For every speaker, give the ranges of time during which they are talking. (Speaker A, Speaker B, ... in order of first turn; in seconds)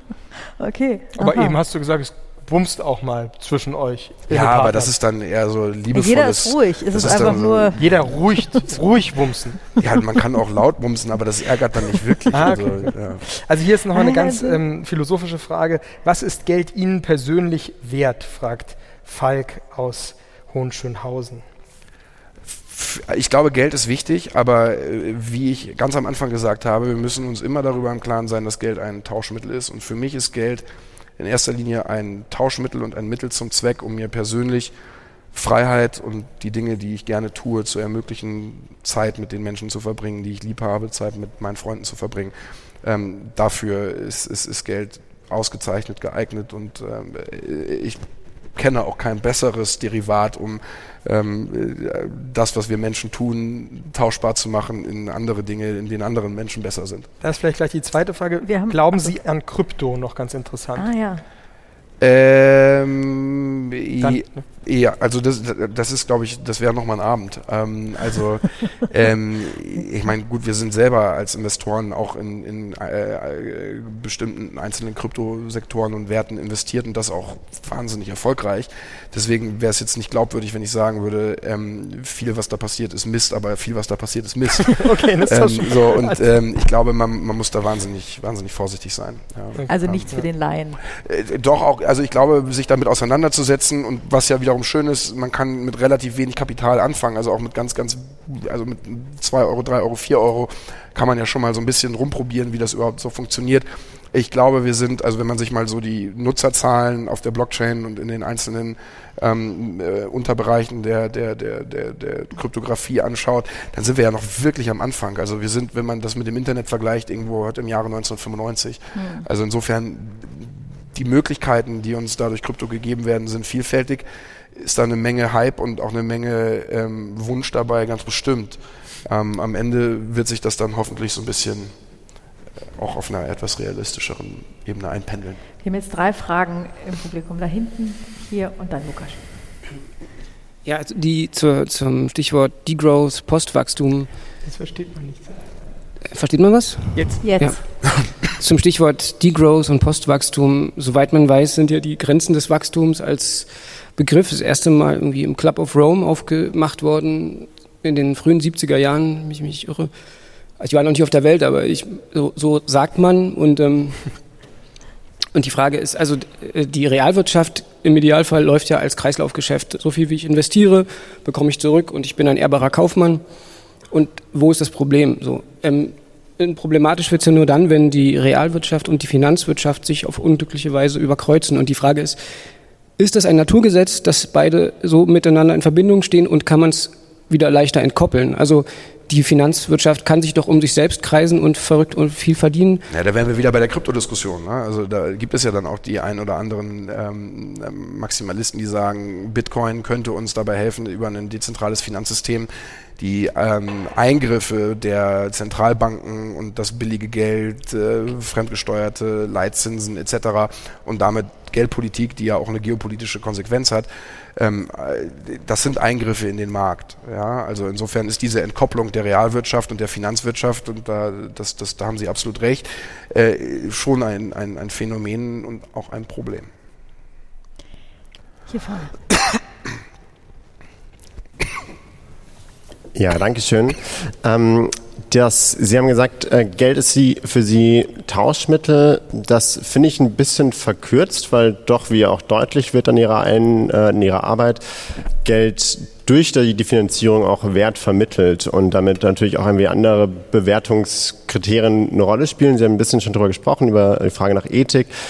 Speaker A: 0.6-1.6, 5.9-7.8, 13.9-14.6, 58.4-59.1, 60.8-61.2, 89.7-90.8, 119.0-119.2, 135.6-139.2, 147.2-147.6, 228.5-228.9
Speaker B: 1.2-4.9, 7.0-9.6, 12.3-21.4, 57.2-60.9, 64.0-64.5, 84.7-86.4, 89.6-90.3, 144.5-145.4, 146.9-147.6
Speaker C: 4.3-8.1, 9.8-13.2, 22.7-30.7, 31.2-34.7, 35.3-48.0, 48.6-57.1, 62.0-90.1, 91.0-131.7, 132.8-135.4, 192.9-226.5
Speaker D: 140.7-144.1, 146.1-147.6, 148.4-159.9, 160.6-164.2, 165.3-173.2, 173.9-182.2, 183.0-192.8
Speaker E: 232.9-244.6, 245.2-254.9